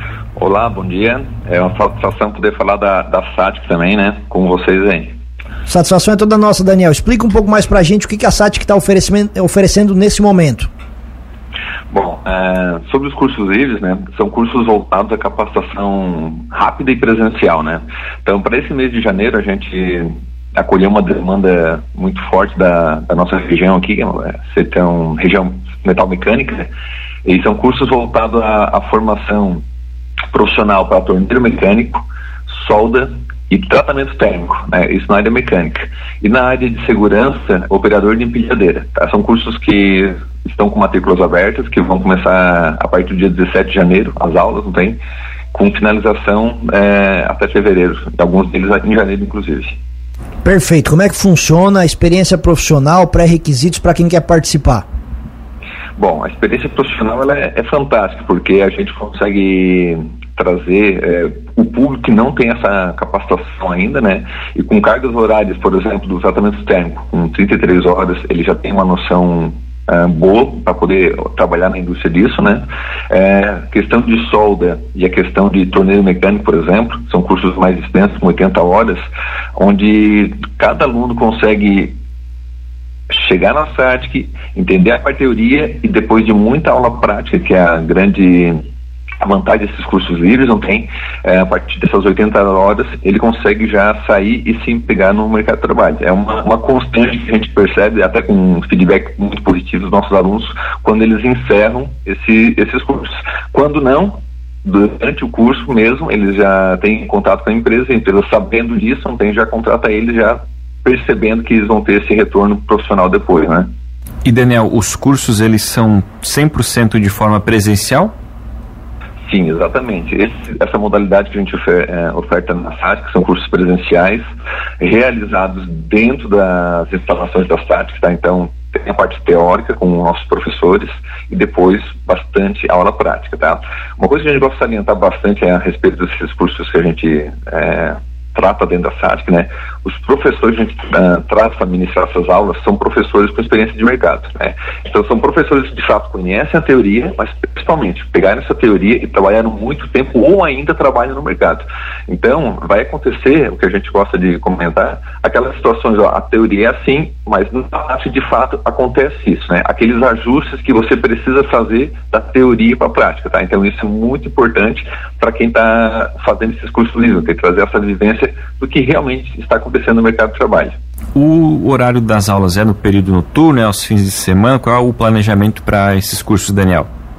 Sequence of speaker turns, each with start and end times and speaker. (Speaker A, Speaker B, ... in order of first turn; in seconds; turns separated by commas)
Speaker A: 0.3-5.1, Speaker B: 5.7-10.7, Speaker A: 11.9-26.7, Speaker A: 27.2-29.6, Speaker A: 30.3-45.0, Speaker A: 45.5-49.8, Speaker B: 50.4-54.8, Speaker A: 56.0-79.0, Speaker A: 79.5-82.0, Speaker A: 83.1-88.6, Speaker A: 89.2-113.7, Speaker C: 114.2-118.1, Speaker A: 119.2-124.2, Speaker A: 124.8-170.8, Speaker C: 171.1-176.9